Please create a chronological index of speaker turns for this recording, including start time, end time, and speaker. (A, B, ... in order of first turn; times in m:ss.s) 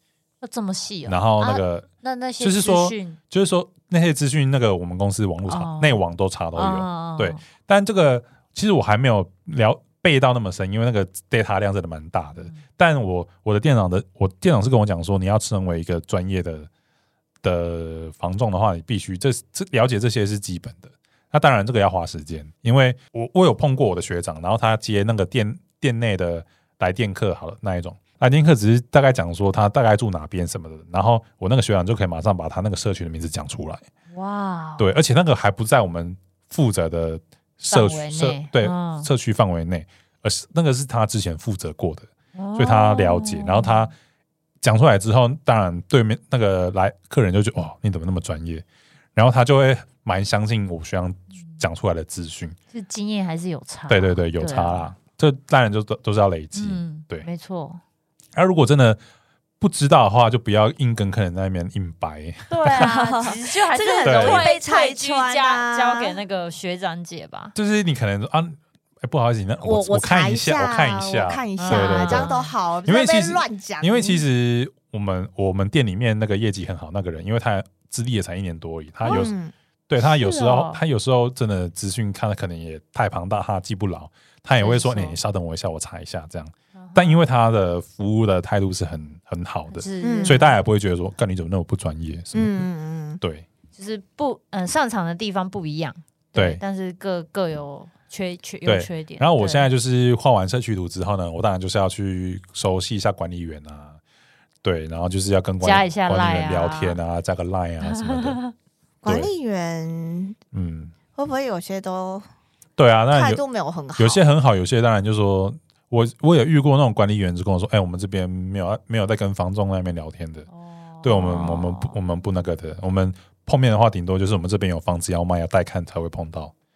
0:00.4-0:03.2 A
0:01.1-0:01.9 B
0:02.4-0:16.7 B
0:05.5-0:06.0 A
0:06.6-0:07.4 A
0:17.4-0:33.8 B
0:34.1-0:34.9 A
0:34.8-0:43.9 B
0:37.7-0:39.1 A
0:42.4-0:43.9 A
0:44.6-0:48.6 B
0:49.2-0:52.6 B
0:52.7-0:54.9 A
0:53.9-0:57.2 B
0:56.5-0:57.8 A
0:58.4-0:59.0 B
0:59.6-1:02.9 B
1:02.5-1:07.5 A
1:02.7-1:06.1 C
1:04.0-1:04.4 B
1:07.6-1:12.3 B
1:09.6-1:14.2 C
1:11.6-1:12.5 A
1:12.8-1:19.3 B
1:19.0-1:19.5 C
1:19.1-1:19.3 A
1:19.9-1:32.7 B
1:20.0-1:20.8 A
1:24.6-1:25.2 A
1:26.8-1:27.2 A
1:29.7-1:30.6 A
1:30.0-1:30.4 C
1:32.3-1:33.2 C
1:33.2-1:33.4 B
1:33.8-1:39.7 A
1:36.4-1:36.6 B
1:38.6-1:44.0 B
1:44.6-1:48.4 B
1:45.6-1:47.0 A
1:47.8-1:48.5 A
1:49.0-1:50.4 C
1:50.5-1:50.9 B
1:51.1-1:52.2 C
1:52.8-1:53.4 B
1:53.1-1:54.2 C
1:54.0-2:00.5 B
2:00.5-2:02.0 A
2:01.0-2:06.5 B